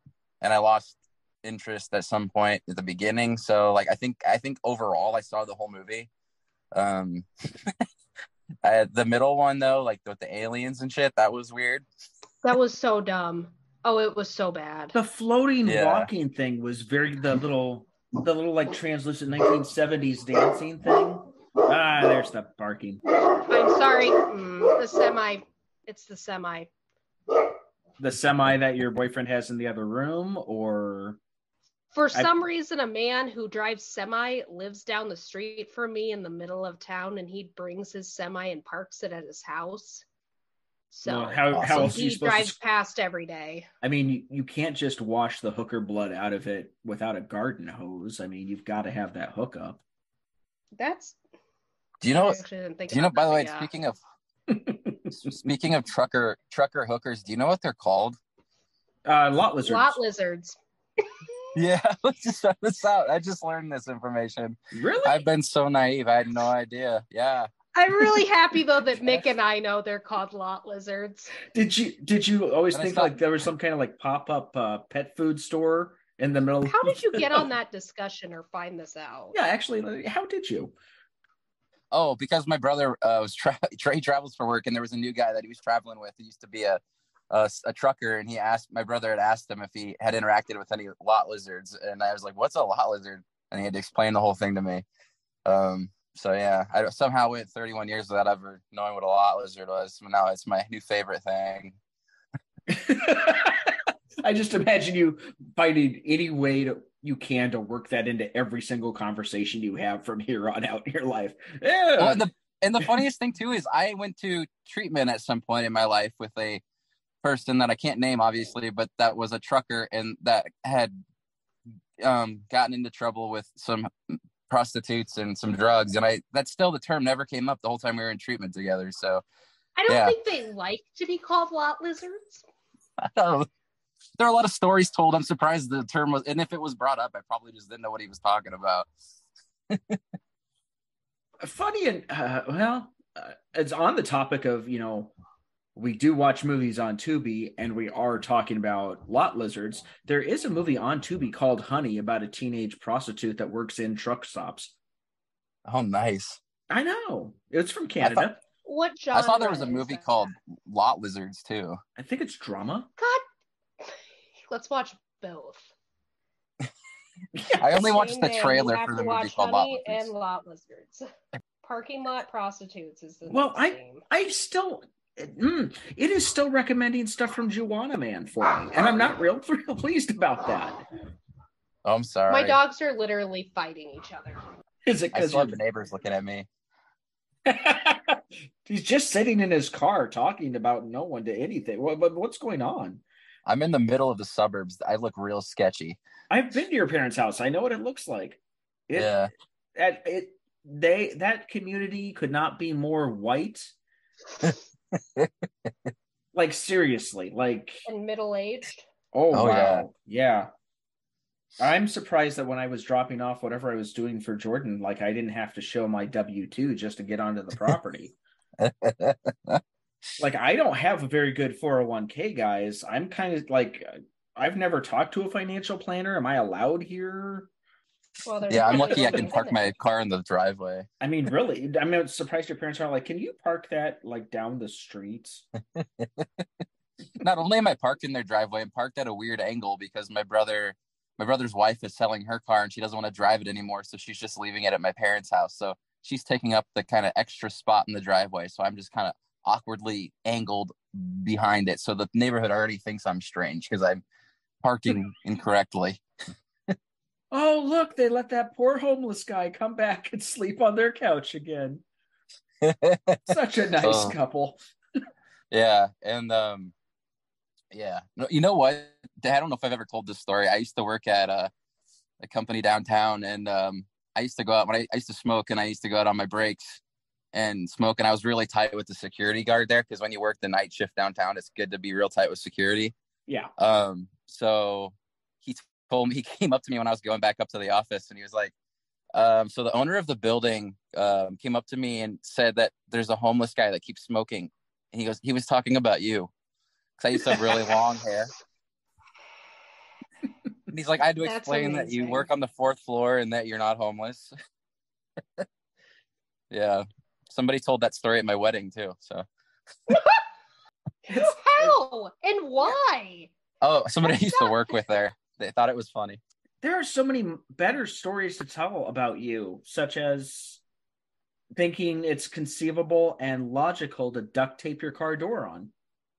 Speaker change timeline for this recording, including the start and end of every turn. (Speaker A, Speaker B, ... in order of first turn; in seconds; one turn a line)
Speaker A: 0.4-6.1
Speaker A: 6.7-7.8
Speaker A: 8.6-11.8
Speaker B: 12.4-14.9
Speaker C: 14.9-23.0
Speaker A: 15.6-16.1
Speaker B: 23.5-26.7
Speaker C: 28.0-31.2
Speaker B: 31.9-40.0
Speaker B: 40.9-43.7
Speaker C: 41.0-42.5
Speaker A: 41.5-42.0
Speaker C: 43.8-49.8
Speaker B: 50.8-51.2
Speaker A: 52.0-54.0
Speaker B: 52.1-53.7
Speaker C: 54.5-55.4
Speaker A: 55.2-58.2
Speaker C: 59.0-60.0
Speaker B: 59.6-60.6
Speaker A: 61.5-67.5
Speaker C: 64.7-65.2
Speaker B: 67.7-71.4
Speaker C: 71.5-77.5
Speaker A: 72.7-73.2
Speaker B: 76.6-79.3
Speaker C: 79.3-80.7
Speaker A: 81.9-86.8
Speaker A: 87.3-94.8
Speaker A: 95.5-101.8
Speaker C: 102.7-112.3
Speaker A: 112.0-116.6
Speaker A: 117.2-121.0
Speaker A: 122.0-129.2
Speaker B: 129.8-132.4
Speaker A: 129.9-130.2
Speaker A: 133.0-133.5
Speaker A: 134.2-138.9
Speaker A: 139.7-140.0
Speaker C: 141.4-145.1
Speaker C: 145.7-154.7
Speaker A: 155.7-156.4
Speaker C: 156.7-158.4
Speaker A: 158.0-158.3
Speaker B: 158.6-160.3
Speaker A: 159.1-161.8
Speaker C: 162.0-162.9
Speaker B: 164.5-165.7
Speaker C: 167.3-167.8
Speaker A: 167.6-170.1
Speaker B: 167.7-171.1
Speaker B: 171.6-174.0
Speaker C: 173.3-180.8
Speaker A: 181.8-182.6
Speaker B: 182.3-184.4
Speaker C: 184.8-185.6
Speaker A: 185.1-186.5
Speaker C: 187.4-193.0
Speaker A: 193.4-196.0
Speaker C: 196.3-199.2
Speaker A: 198.9-199.3
Speaker C: 199.8-203.7
Speaker A: 204.4-205.7
Speaker C: 206.3-207.8
Speaker B: 207.8-208.8
Speaker C: 209.1-210.5
Speaker A: 209.3-209.9
Speaker C: 211.6-218.1
Speaker A: 218.6-219.6
Speaker C: 220.2-227.5
Speaker B: 228.2-229.7
Speaker A: 228.5-230.9
Speaker C: 228.6-229.4
Speaker C: 231.0-235.4
Speaker A: 235.7-236.4
Speaker A: 237.2-254.0
Speaker A: 254.6-256.0
Speaker C: 257.3-261.8
Speaker A: 262.6-264.1
Speaker C: 263.3-264.6
Speaker A: 265.5-266.7
Speaker A: 267.7-271.5
Speaker A: 272.2-276.8
Speaker A: 277.3-282.9
Speaker A: 283.6-288.5
Speaker A: 289.1-296.3
Speaker A: 297.0-298.3
Speaker A: 300.7-304.3
Speaker B: 301.2-302.3
Speaker A: 306.5-309.2
Speaker B: 309.9-310.2
Speaker B: 311.1-313.3
Speaker C: 311.1-311.8
Speaker A: 313.6-316.2
Speaker B: 314.0-314.5
Speaker C: 316.6-320.6
Speaker C: 321.6-325.7